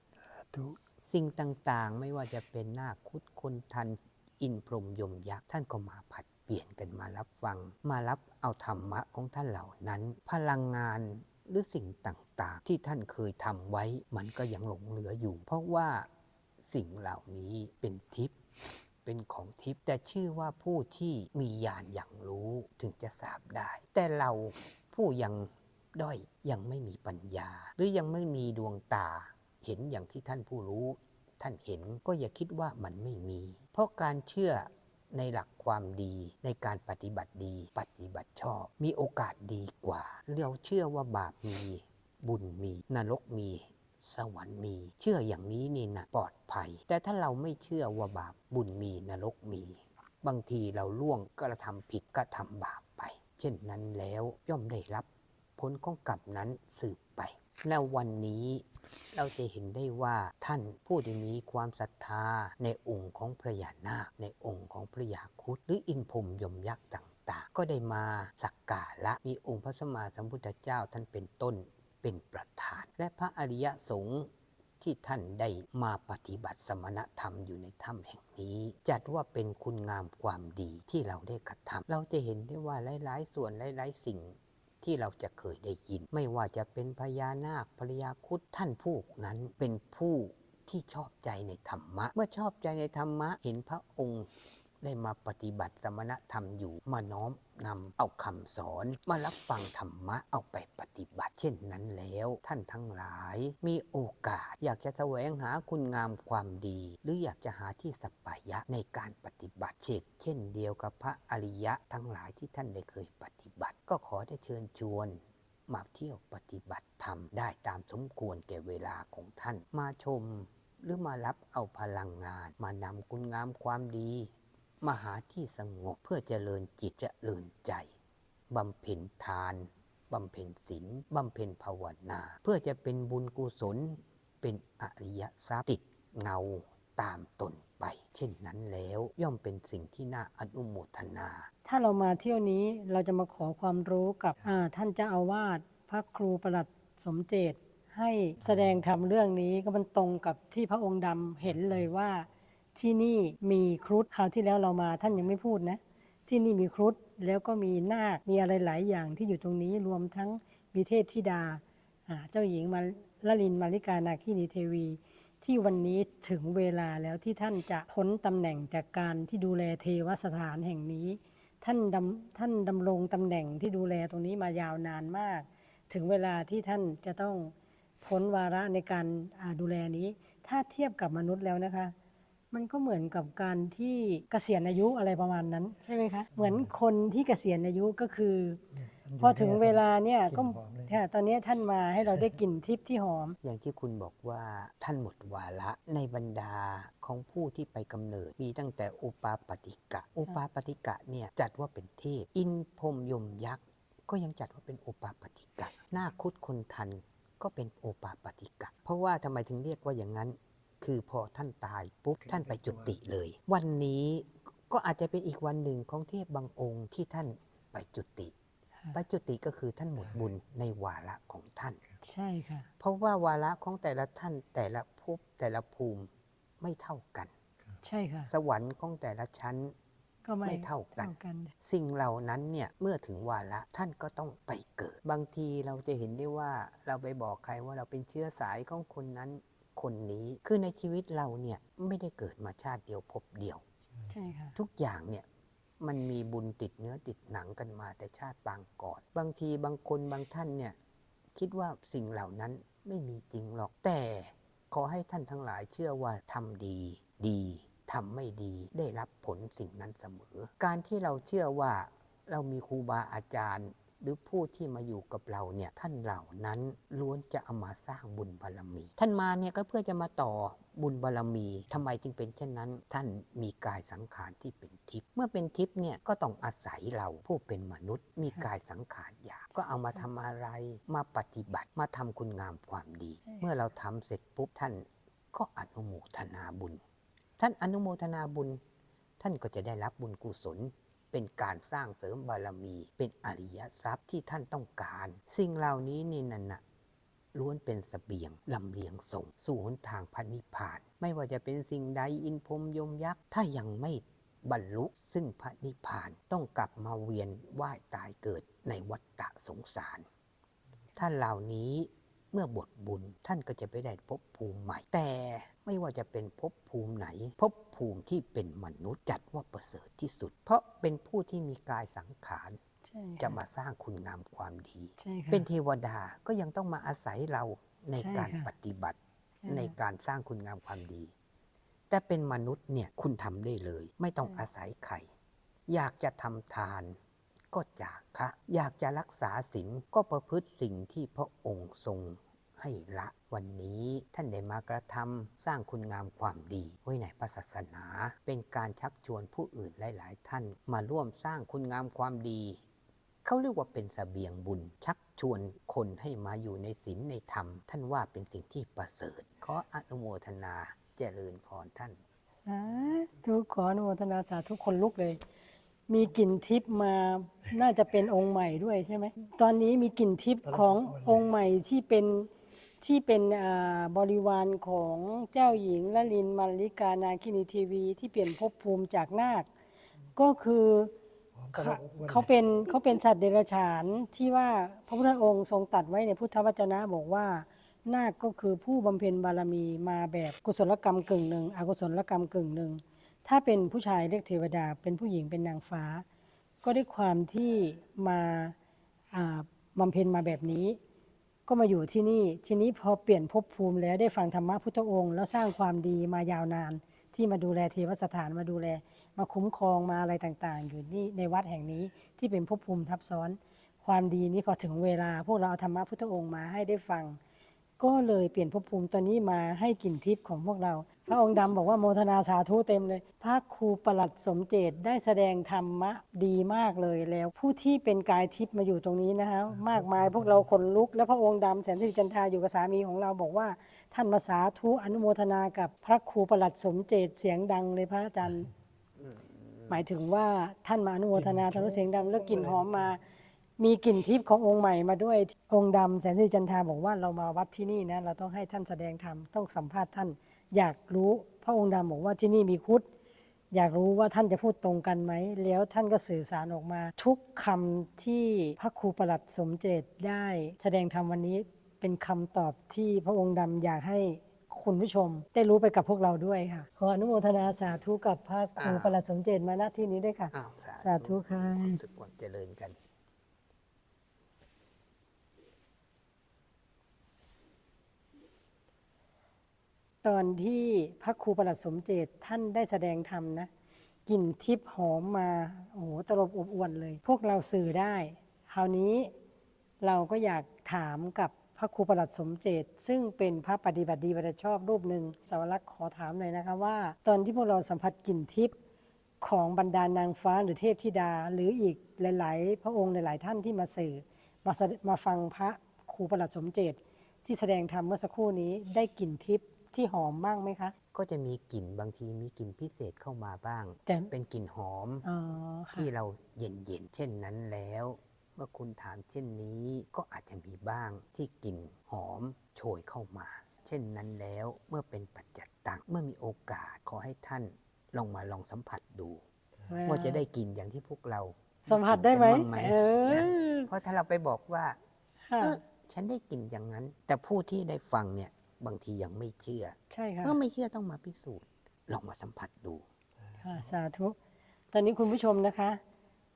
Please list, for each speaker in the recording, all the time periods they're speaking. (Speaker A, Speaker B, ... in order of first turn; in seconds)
Speaker A: 0.3-0.8, 186.4-186.7, 188.8-191.0, 212.2-212.9, 370.5-371.2, 381.4-382.3, 429.6-430.4, 441.1-442.9
Speaker B: 1.0-16.1, 16.6-18.3, 19.0-74.3, 74.8-94.3, 94.8-127.9, 128.5-141.5, 193.4-218.3, 218.9-221.8, 222.8-227.3, 228.3-229.7, 230.4-231.1, 231.6-243.6, 244.6-245.2, 245.8-250.8, 251.3-286.8, 287.4-288.6, 289.2-296.6, 297.3-310.1, 310.9-322.6, 323.2-331.1, 331.9-335.1, 335.7-337.0, 337.5-352.6, 353.2-362.0, 439.0-439.8, 468.6-469.0, 470.3-472.8, 510.9-515.0, 515.7-529.2, 529.9-534.8, 535.4-542.8
Speaker C: 141.6-181.9, 182.5-188.6, 189.2-193.3, 222.0-222.7, 227.8-228.3, 230.2-231.5, 244.1-244.6, 322.9-323.4, 325.0-325.4, 328.0-328.5, 329.4-329.7, 362.5-365.2, 365.9-372.3, 372.8-379.5, 380.1-380.9, 381.5-396.0, 396.6-398.5, 399.1-400.8, 401.5-417.2, 417.8-438.5, 439.7-443.0, 443.6-452.9, 453.5-471.8, 480.0-483.5, 484.1-489.1, 489.8-498.5, 499.2-510.7, 513.9-514.1, 515.0-515.9, 529.7-530.2, 531.7-533.7, 535.3-535.6, 539.9-540.4, 543.4-544.1, 544.7-545.8